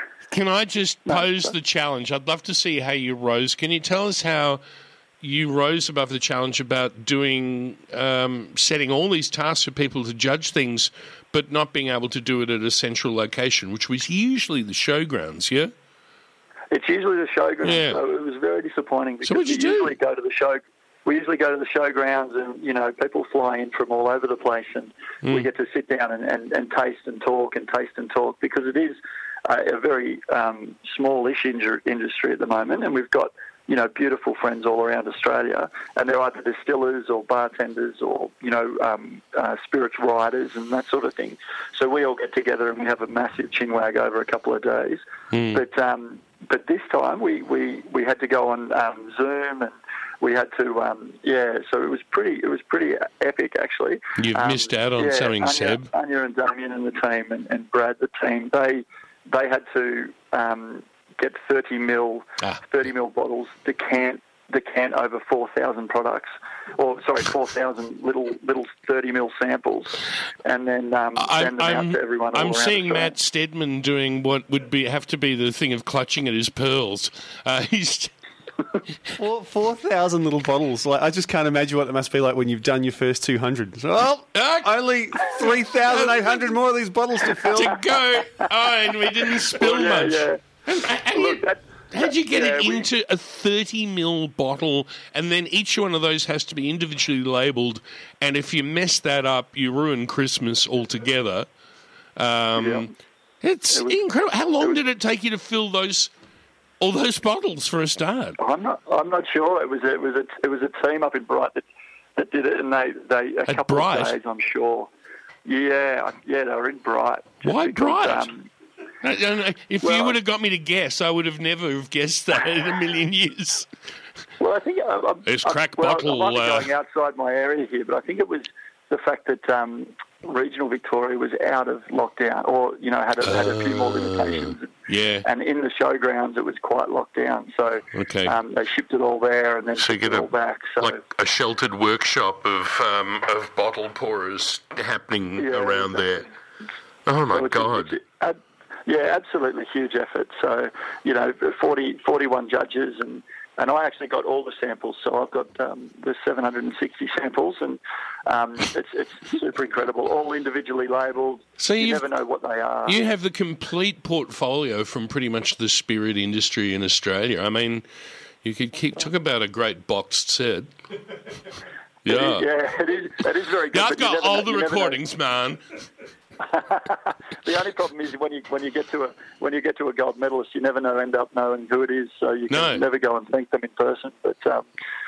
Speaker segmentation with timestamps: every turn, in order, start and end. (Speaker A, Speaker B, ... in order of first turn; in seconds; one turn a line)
Speaker A: 0.3-4.6
Speaker B: 1.1-1.5
Speaker A: 5.2-15.7
Speaker B: 16.7-45.0
Speaker A: 17.6-18.0
Speaker A: 19.2-19.9
Speaker A: 45.3-45.6
Speaker B: 45.5-73.1
Speaker A: 54.2-55.9
Speaker A: 71.2-78.1
Speaker C: 79.2-87.8
Speaker A: 84.3-86.4
Speaker A: 87.5-101.5
Speaker B: 89.2-90.4
Speaker B: 91.1-92.8
Speaker A: 102.2-102.9
Speaker B: 102.5-102.9
Speaker A: 103.4-106.1
Speaker B: 103.7-104.0
Speaker A: 106.8-108.3
Speaker B: 108.4-111.6
Speaker B: 112.2-114.9
Speaker A: 113.5-114.2
Speaker B: 115.4-118.5
Speaker A: 117.4-118.3
Speaker A: 119.0-123.7
Speaker B: 119.8-120.2
Speaker B: 124.4-141.0
Speaker A: 125.2-126.7
Speaker A: 133.2-135.2
Speaker A: 137.9-138.3
Speaker A: 139.8-140.3
Speaker A: 140.8-146.3
Speaker B: 145.4-146.2
Speaker A: 147.1-148.0
Speaker B: 147.3-163.0
Speaker A: 161.6-162.1
Speaker A: 162.8-167.8
Speaker A: 168.4-170.7
Speaker A: 172.0-172.5
Speaker B: 172.1-175.0
Speaker A: 173.7-175.6
Speaker B: 176.5-184.6
Speaker A: 182.5-182.8